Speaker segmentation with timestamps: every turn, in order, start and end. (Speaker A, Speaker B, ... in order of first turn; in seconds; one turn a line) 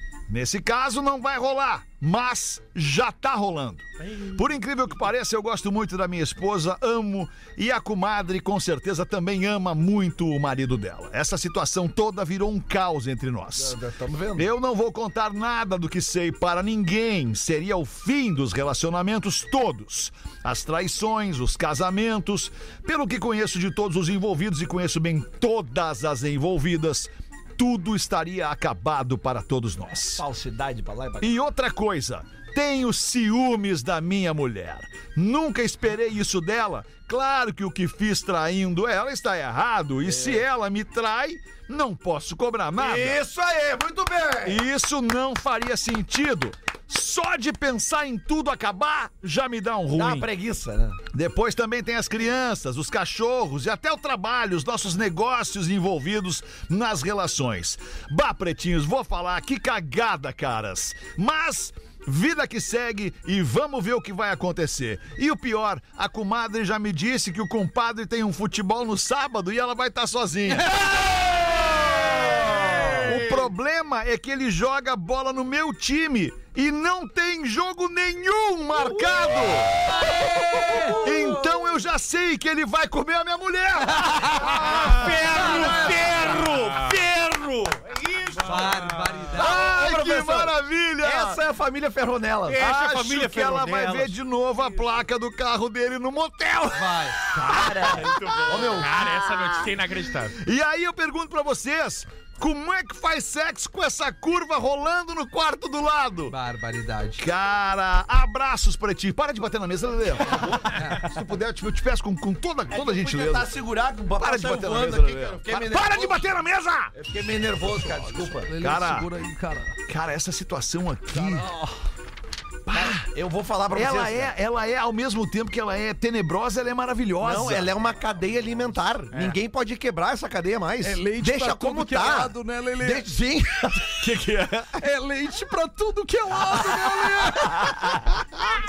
Speaker A: 0.3-13.8
Speaker B: 4.0-4.5
Speaker C: 13.6-14.5
Speaker A: 14.3-30.2
Speaker C: 30.1-31.3
Speaker A: 31.2-43.2
Speaker C: 40.0-40.4
Speaker C: 42.8-44.6
Speaker A: 44.4-50.3
Speaker C: 49.9-51.0
Speaker A: 51.1-70.9
Speaker D: 70.5-70.9
Speaker A: 71.8-79.7
Speaker D: 80.2-81.0
Speaker C: 80.3-81.6
Speaker A: 80.9-85.1
Speaker D: 83.9-84.6
Speaker E: 84.6-89.2
Speaker B: 84.8-85.0
Speaker D: 85.3-86.0
Speaker B: 86.5-87.0
Speaker D: 88.5-89.6
Speaker A: 89.3-91.4
Speaker C: 89.3-92.6
Speaker E: 92.5-94.2
Speaker A: 92.5-99.6
Speaker D: 96.8-97.2
Speaker C: 97.3-98.9
Speaker B: 98.6-100.4
Speaker A: 100.4-106.3
Speaker D: 106.3-107.2
Speaker A: 107.2-113.5
Speaker D: 110.8-111.0
Speaker C: 112.7-116.2
Speaker A: 114.2-116.9
Speaker C: 117.0-118.5
Speaker A: 117.8-119.1
Speaker D: 118.5-119.8
Speaker A: 119.9-121.5
Speaker C: 121.3-121.7
Speaker A: 122.7-123.1
Speaker C: 122.7-124.3
Speaker A: 123.7-127.7
Speaker C: 127.2-134.0
Speaker D: 130.8-133.1
Speaker A: 134.0-134.8
Speaker D: 134.8-137.9
Speaker A: 137.8-138.1